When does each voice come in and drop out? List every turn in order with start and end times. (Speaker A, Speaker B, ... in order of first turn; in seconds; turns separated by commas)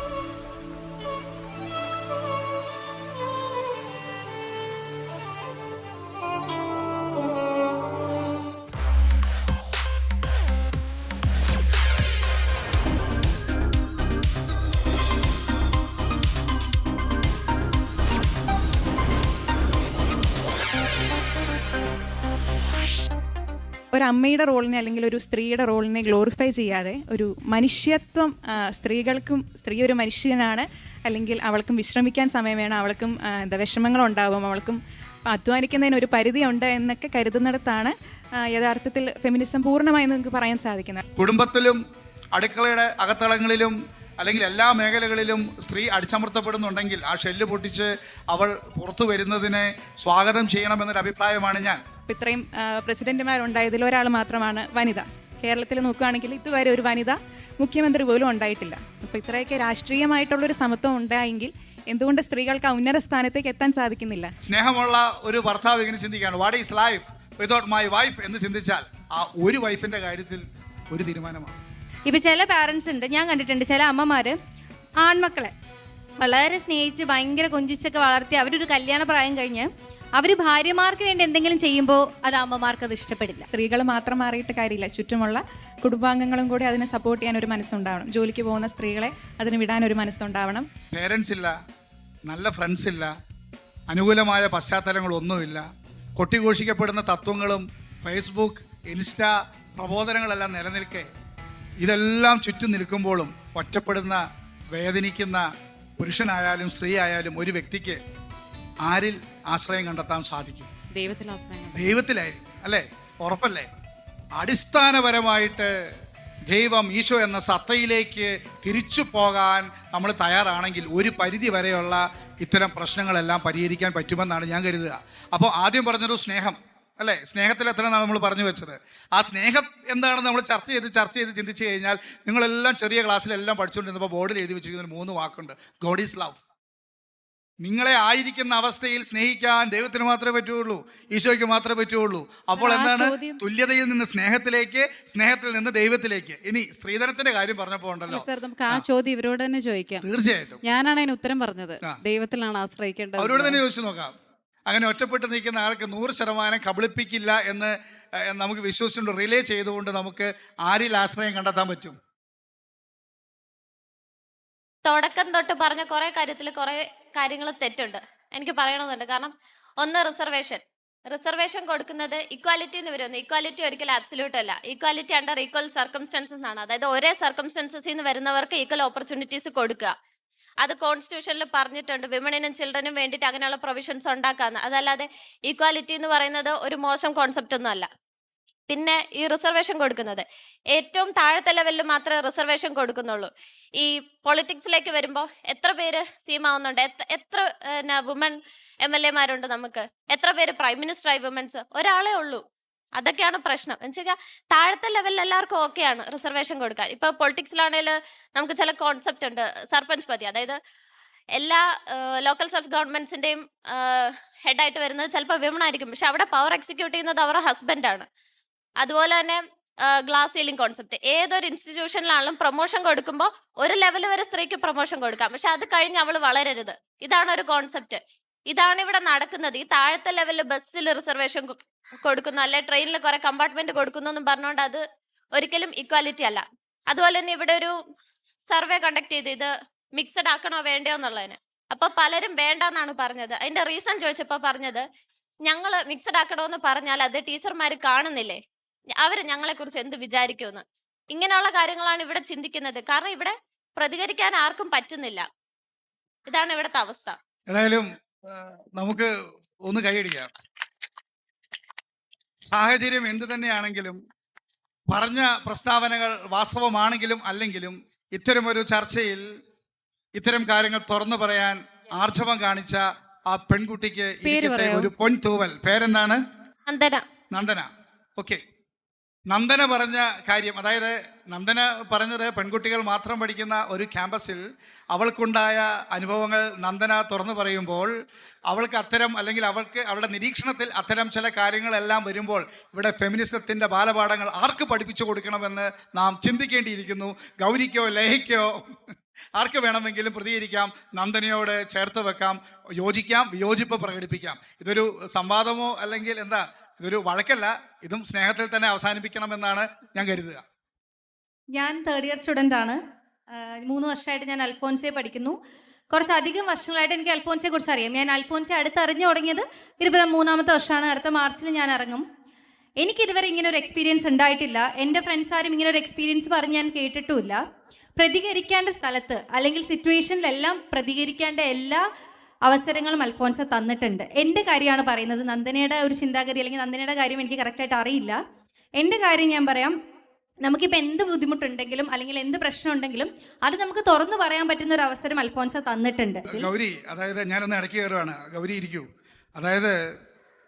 Speaker A: 23.9-34.8, Speaker A: 35.3-37.9, Speaker A: 38.5-41.0, Speaker B: 41.1-41.8, Speaker B: 42.3-51.8, Speaker A: 52.1-64.3, Speaker B: 64.4-71.6, Speaker C: 72.1-74.4, Speaker C: 75.0-75.5, Speaker C: 76.2-83.5, Speaker A: 83.5-90.7, Speaker B: 90.9-91.6, Speaker B: 92.3-93.1, Speaker B: 93.9-95.6, Speaker B: 96.2-101.1, Speaker B: 101.8-104.2, Speaker B: 104.7-105.5, Speaker B: 106.0-108.0, Speaker B: 108.8-110.7, Speaker D: 110.9-111.9, Speaker B: 111.7-113.7, Speaker B: 114.3-115.7, Speaker B: 116.5-136.4, Speaker B: 137.6-148.8, Speaker D: 142.6-143.4, Speaker D: 148.1-150.1, Speaker B: 150.0-150.6, Speaker D: 150.6-153.6, Speaker B: 153.2-154.1, Speaker B: 154.7-157.7, Speaker B: 158.2-162.0, Speaker E: 164.8-179.9, Speaker E: 180.6-187.9, Speaker E: 188.7-202.4, Speaker E: 203.0-210.6, Speaker E: 211.3-218.1, Speaker E: 218.8-237.7, Speaker E: 238.5-244.8, Speaker E: 245.4-248.4, Speaker E: 249.0-255.2, Speaker E: 256.3-257.1, Speaker B: 257.5-259.1, Speaker B: 259.7-260.3, Speaker B: 262.5-264.0, Speaker B: 264.9-269.2, Speaker B: 270.2-276.2, Speaker D: 274.2-274.9, Speaker E: 276.6-277.0, Speaker B: 277.3-278.4, Speaker B: 279.3-287.9, Speaker B: 288.5-310.4, Speaker C: 311.5-312.8, Speaker C: 313.3-315.3, Speaker C: 315.9-322.0, Speaker C: 322.8-327.4, Speaker C: 328.0-331.8, Speaker C: 332.4-338.2, Speaker C: 338.8-339.7, Speaker C: 340.4-346.5, Speaker B: 346.3-349.7